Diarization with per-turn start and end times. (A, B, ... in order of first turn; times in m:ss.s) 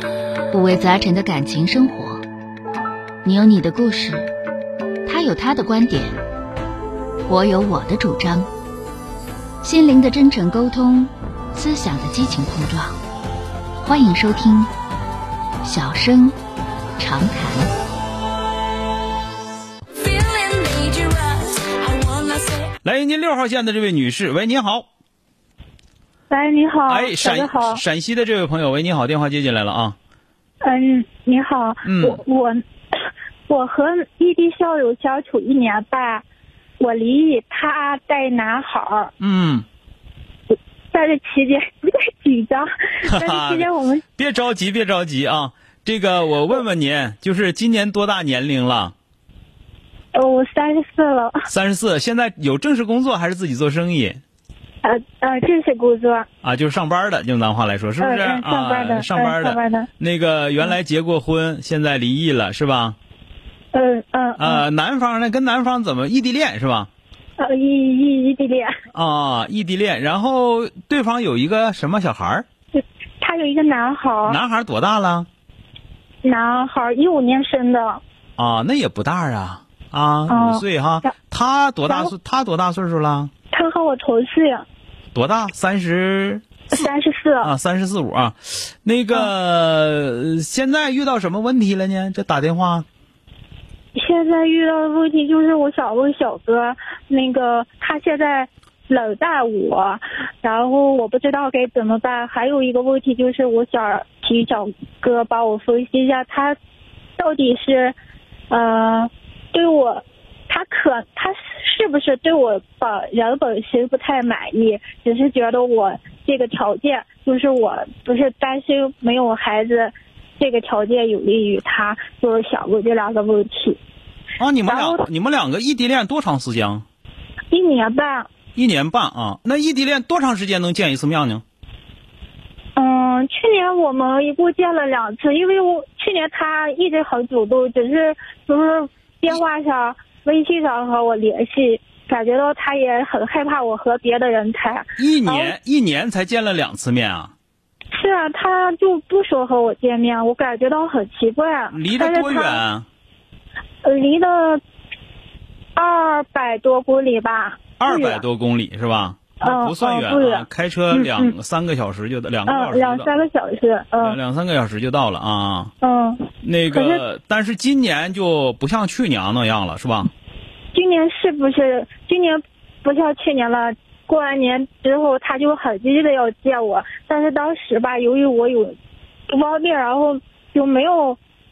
0:00.5-0:02.2 A
0:03.2-0:04.3 A
0:05.1-0:06.2 A
0:07.3-0:08.5 A
0:09.6-0:13.0 A
0:13.8-0:14.7 A
0:15.6-0:16.4 A
0:17.0-0:17.7 A
0:20.0-0:22.7 B
0:22.8-0:24.9 C
0:26.3-0:27.8 D
0:26.9-0:30.0 C
0:30.6-0:32.6 D
0:31.8-0:32.2 C
0:33.5-0:36.2 D
0:36.8-0:39.1 D
0:39.2-0:39.7 C
0:40.5-0:44.0 D
0:43.0-0:48.9 C
0:50.1-0:51.4 D
0:51.5-0:54.2 C
0:54.8-0:56.3 D
0:56.4-1:03.0 C
0:58.0-0:59.9 D
1:03.7-1:04.6 D
1:04.4-1:06.9 C
1:07.4-1:08.7 D
1:08.9-1:12.4 C
1:12.8-1:14.4 D
1:14.3-1:15.3 C
1:16.2-1:18.0 D
1:18.4-1:23.3 C
1:20.3-1:21.1 D
1:21.9-1:22.1 D
1:23.5-1:24.7 D
1:25.1-1:26.9 C
1:26.7-1:27.5 D
1:27.4-1:32.9 C
1:34.0-1:46.6 D
1:47.2-1:48.0 D
1:48.5-2:03.8 D
2:04.4-2:06.8 C
2:04.7-2:05.0 D
2:07.5-2:08.3 D
2:08.6-2:11.4 C
2:12.8-2:25.5 D
2:25.0-2:27.3 C
2:27.9-2:32.6 D
2:31.7-2:32.9 C
2:33.8-2:34.6 D
2:35.8-2:38.2 D
2:37.8-2:43.1 C
2:39.4-2:41.4 D
2:42.5-2:44.2 D
2:44.0-2:45.7 C
2:45.8-2:47.0 D
2:46.4-2:50.1 C
2:50.7-2:58.8 D
2:59.3-3:01.2 D